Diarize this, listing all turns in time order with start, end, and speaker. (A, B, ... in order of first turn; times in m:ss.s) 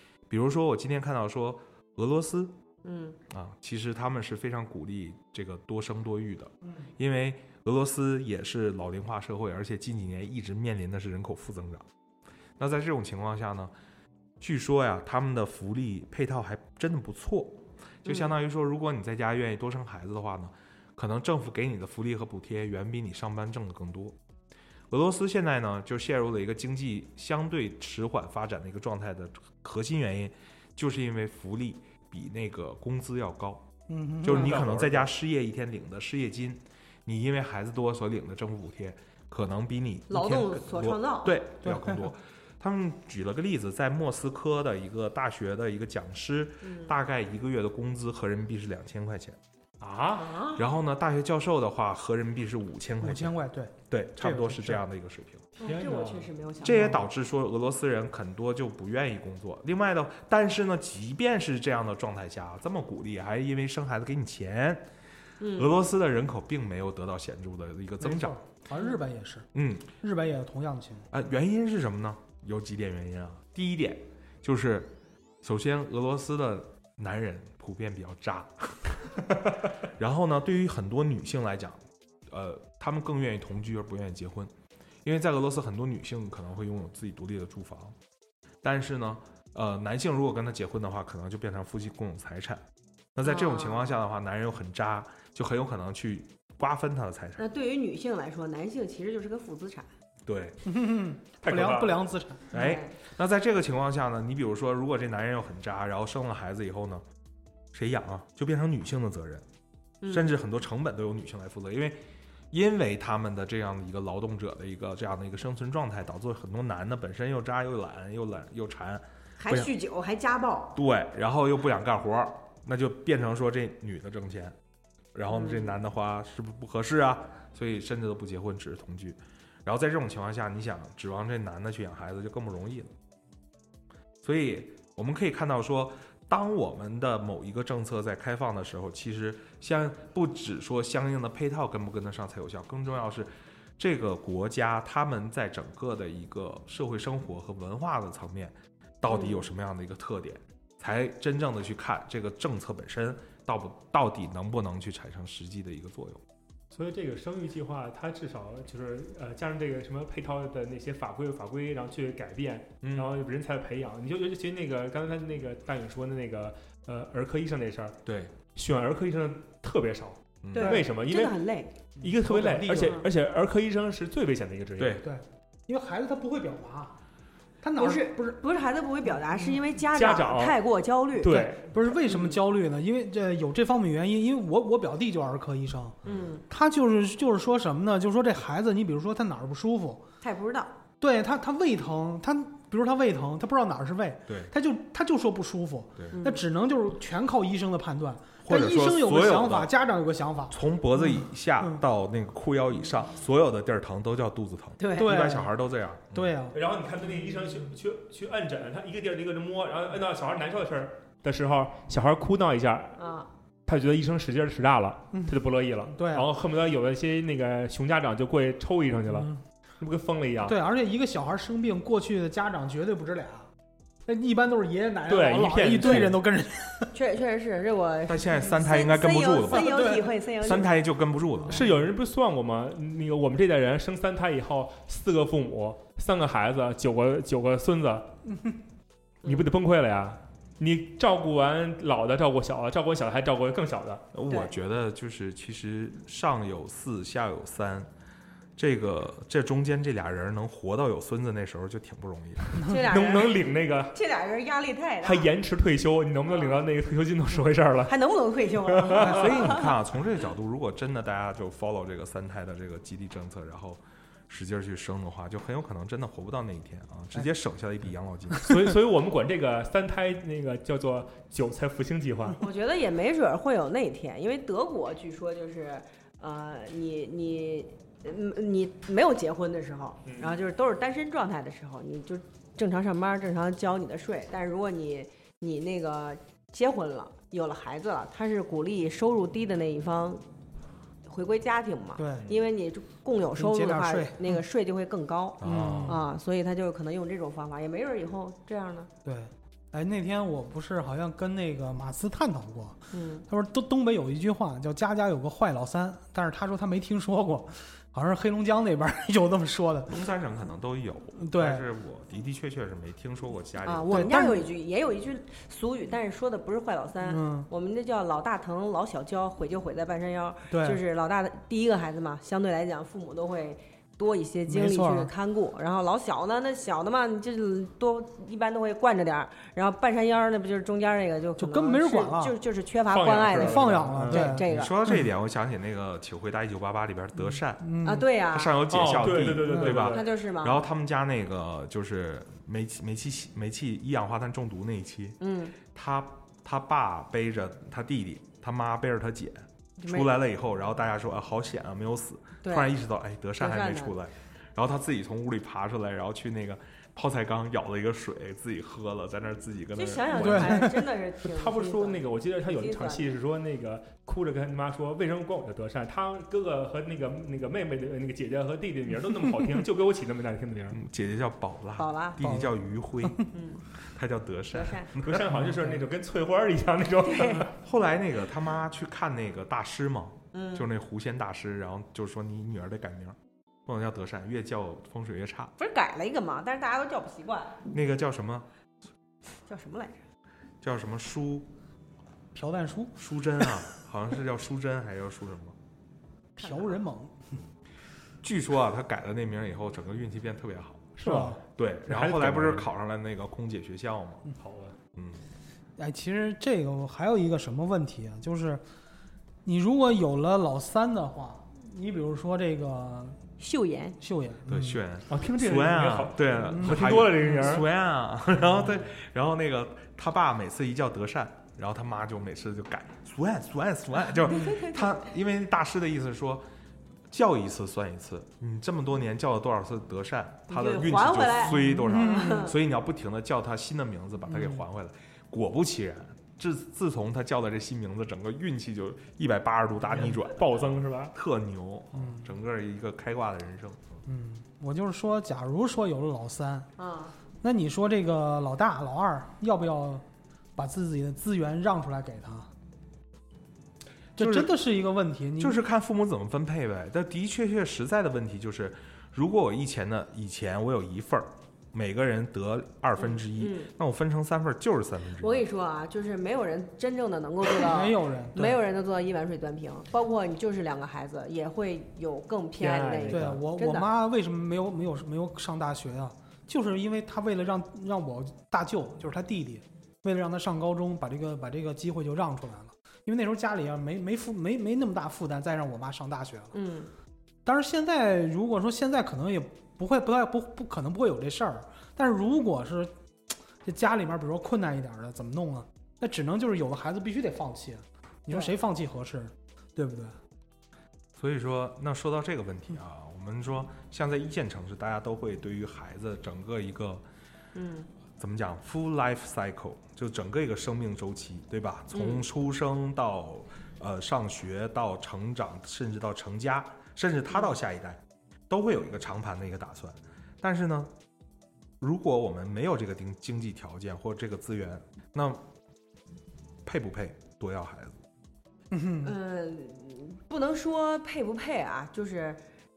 0:00.3-0:02.6 A
0:02.8-0:03.2 B
0:03.3-0:11.9 A
0:12.6-0:13.7 A
0:14.4-0:24.2 A
0:18.0-0:18.4 B
0:24.9-0:33.7 A
0:33.9-0:34.7 C
0:34.2-0:49.4 A
0:34.3-0:35.1 D
0:40.1-0:41.4 B
0:41.6-0:42.1 C
0:46.6-0:46.9 B
0:49.8-0:50.4 D
0:50.2-0:50.7 B
0:50.6-0:53.4 A
0:53.0-0:54.8 C
0:53.9-0:55.5 A
0:55.6-0:57.0 B
0:55.6-0:56.3 D
0:56.6-1:04.9 A
1:05.4-1:05.7 B
1:05.6-1:08.4 A
1:08.0-1:09.5 C
1:09.5-1:09.9 A
1:10.0-1:11.1 C
1:11.1-1:24.5 A
1:25.0-1:28.0 A
1:28.6-1:32.6 A
1:33.2-1:37.4 A
1:33.2-1:34.0 B
1:37.4-1:39.9 B
1:40.3-1:40.6 A
1:40.6-1:42.5 C
1:41.4-1:42.0 D
1:42.5-1:47.0 A
1:42.5-1:43.0 B
1:47.7-1:49.4 A
1:50.0-1:50.3 B
1:50.1-1:59.7 A
1:59.4-2:00.8 B
2:00.8-2:04.6 A
2:05.2-2:12.9 A
2:05.3-2:05.8 B
2:14.2-2:36.2 A
2:29.1-2:29.4 B
2:36.7-2:48.0 D
2:42.8-2:43.1 A
2:48.1-2:48.3 A
2:48.6-2:51.4 D
2:50.4-2:50.8 A
2:50.5-2:51.8 B
2:52.0-2:55.0 D
2:52.0-2:53.1 C
2:54.8-2:55.1 A
2:55.0-2:57.0 C
2:57.6-2:58.4 C
2:57.8-3:01.5 B
2:59.9-3:00.6 D
3:01.2-3:01.7 D
3:01.2-3:06.0 C
3:02.1-3:02.4 B
3:06.0-3:06.3 A
3:06.0-3:06.4 B
3:06.5-3:10.0 C
3:10.2-3:10.8 B
3:11.0-3:21.8 C
3:16.1-3:16.4 B
3:18.4-3:19.7 A
3:20.5-3:26.3 A
3:24.8-3:25.1 B
3:25.0-3:25.5 C
3:26.1-3:26.6 C
3:26.5-3:33.0 D
3:33.0-3:33.3 B
3:33.7-3:40.6 D
3:35.1-3:36.3 C
3:39.1-3:39.4 C
3:40.4-3:43.5 C
3:44.1-3:46.9 C
3:45.1-3:46.2 D
3:46.9-3:50.7 B
3:48.1-3:51.7 A
3:49.5-3:50.1 C
3:51.5-3:58.2 D
3:59.2-3:59.5 B
3:59.2-4:04.1 D
4:04.1-4:07.9 A
4:04.3-4:04.5 B
4:08.6-4:12.7 A
4:12.6-4:15.3 B
4:12.7-4:14.0 D
4:15.0-4:18.0 D
4:16.3-4:16.6 B
4:17.9-4:19.7 B
4:18.7-4:19.6 D
4:18.9-4:28.5 A
4:28.4-4:32.4 D
4:32.4-4:50.2 B
4:40.1-4:40.4 D
4:51.1-4:58.9 B
4:52.0-4:52.3 C
4:53.4-4:54.4 C
4:55.4-4:56.0 A
4:55.4-4:56.0 C
4:59.0-5:10.1 C
5:02.9-5:03.2 B
5:09.9-5:14.0 A
5:11.2-5:11.6 C
5:13.6-5:34.8 B
5:13.9-5:14.5 C
5:17.0-5:17.5 C
5:20.5-5:20.8 C
5:24.5-5:25.1 C
5:31.4-5:32.4 C
5:32.9-5:34.4 D
5:33.3-5:35.1 C
5:34.4-6:00.3 A
5:37.2-5:38.1 C
5:37.8-5:38.6 B
5:38.7-5:40.1 D
5:39.5-5:39.9 C
5:39.9-5:40.6 B
5:45.2-5:45.6 B
5:49.8-5:50.1 B
5:52.4-5:52.7 B
5:53.4-5:54.0 B
5:59.8-6:03.1 B
6:00.1-6:10.8 D
6:00.1-6:00.8 C
6:10.7-6:15.4 A
6:11.8-6:12.2 B
6:12.2-6:13.3 C
6:13.3-6:13.6 B
6:14.5-6:14.9 B
6:15.0-6:17.5 D
6:17.0-6:17.5 B
6:17.6-6:25.5 A
6:20.3-6:20.7 B
6:25.6-6:27.6 B
6:27.7-6:28.5 A
6:29.5-6:30.0 B
6:30.6-6:31.5 A
6:32.3-6:33.6 C
6:33.0-6:35.6 A
6:36.4-6:36.8 B
6:36.4-6:37.4 C
6:38.2-6:40.9 A
6:41.0-6:42.7 D
6:41.0-6:41.4 C
6:41.6-6:44.3 A
6:44.4-6:44.8 D
6:45.0-6:45.2 A
6:45.8-6:48.6 C
6:49.4-6:53.2 C
6:53.4-6:54.0 B
6:54.0-6:54.8 C
6:54.5-7:06.5 A
6:55.1-6:57.7 D
6:56.4-6:57.4 C
7:04.2-7:05.0 B
7:07.1-7:24.0 A
7:10.5-7:12.6 B
7:11.6-7:12.4 C
7:14.3-7:14.6 C
7:19.9-7:21.2 D
7:21.9-7:22.3 C
7:24.1-7:26.7 C
7:26.8-7:27.2 B
7:27.4-7:30.0 C
7:30.6-7:32.5 C
7:34.2-7:35.6 C
7:34.2-7:34.5 A
7:35.4-7:45.4 A
7:43.0-7:43.7 B
7:45.2-7:53.9 B
7:47.6-7:48.6 C
7:52.6-7:53.4 D
7:53.1-8:06.5 C
8:06.5-8:06.9 B
8:07.4-8:12.9 C
8:13.6-8:20.2 C
8:21.2-8:27.0 A
8:27.6-8:27.9 B
8:28.2-8:40.9 A
8:31.9-8:32.3 B
8:41.8-8:45.4 A
8:46.6-8:48.0 A
8:48.7-8:49.2 C
8:49.0-8:52.4 B